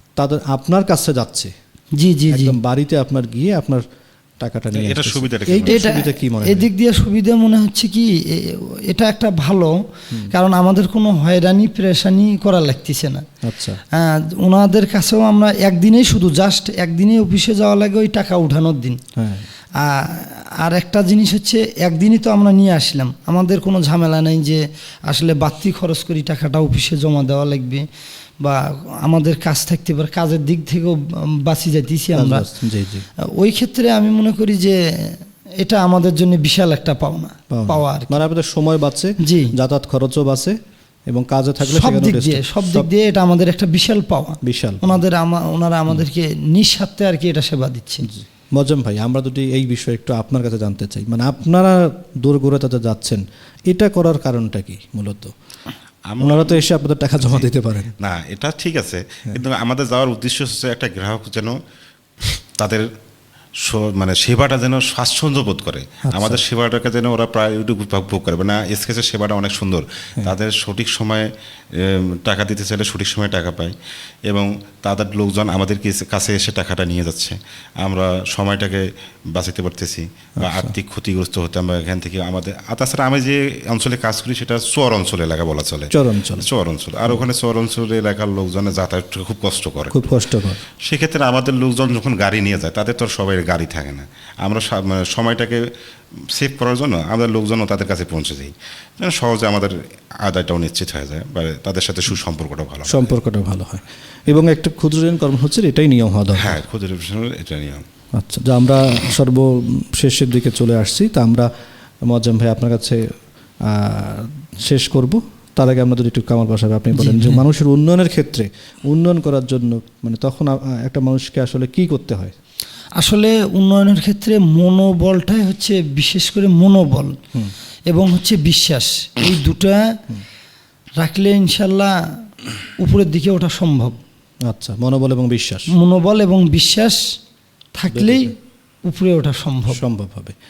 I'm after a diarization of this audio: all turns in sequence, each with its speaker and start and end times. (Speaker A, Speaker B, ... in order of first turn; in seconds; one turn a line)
Speaker A: 0.2-1.5
Speaker B: 1.9-2.5
Speaker A: 2.3-3.8
Speaker A: 4.4-6.7
Speaker C: 4.7-5.8
Speaker B: 5.7-13.2
Speaker A: 13.4-13.8
Speaker B: 13.9-19.0
Speaker A: 19.1-19.5
Speaker B: 19.8-27.8
Speaker B: 28.4-32.5
Speaker A: 32.1-33.0
Speaker B: 33.2-38.2
Speaker A: 37.5-40.5
Speaker B: 39.2-39.5
Speaker A: 41.1-42.9
Speaker B: 41.6-48.1
Speaker A: 44.4-45.0
Speaker A: 48.1-55.3
Speaker C: 56.1-56.6
Speaker A: 56.2-57.9
Speaker C: 57.2-57.5
Speaker C: 58.0-61.5
Speaker C: 62.2-62.9
Speaker C: 63.6-73.8
Speaker A: 66.0-66.4
Speaker C: 74.3-90.0
Speaker A: 80.4-80.7
Speaker A: 85.9-86.5
Speaker A: 89.9-90.6
Speaker C: 90.8-95.7
Speaker C: 96.3-103.1
Speaker A: 102.8-106.6
Speaker C: 106.3-107.8
Speaker A: 108.1-111.5
Speaker A: 112.0-113.1
Speaker A: 113.6-122.3
Speaker B: 116.9-117.4
Speaker B: 123.0-127.2
Speaker B: 127.9-129.9
Speaker B: 131.0-131.9
Speaker B: 132.8-133.9
Speaker A: 134.4-135.7
Speaker B: 135.7-137.0
Speaker B: 137.8-138.3
Speaker A: 137.9-138.3
Speaker B: 138.8-139.8
Speaker A: 139.7-140.3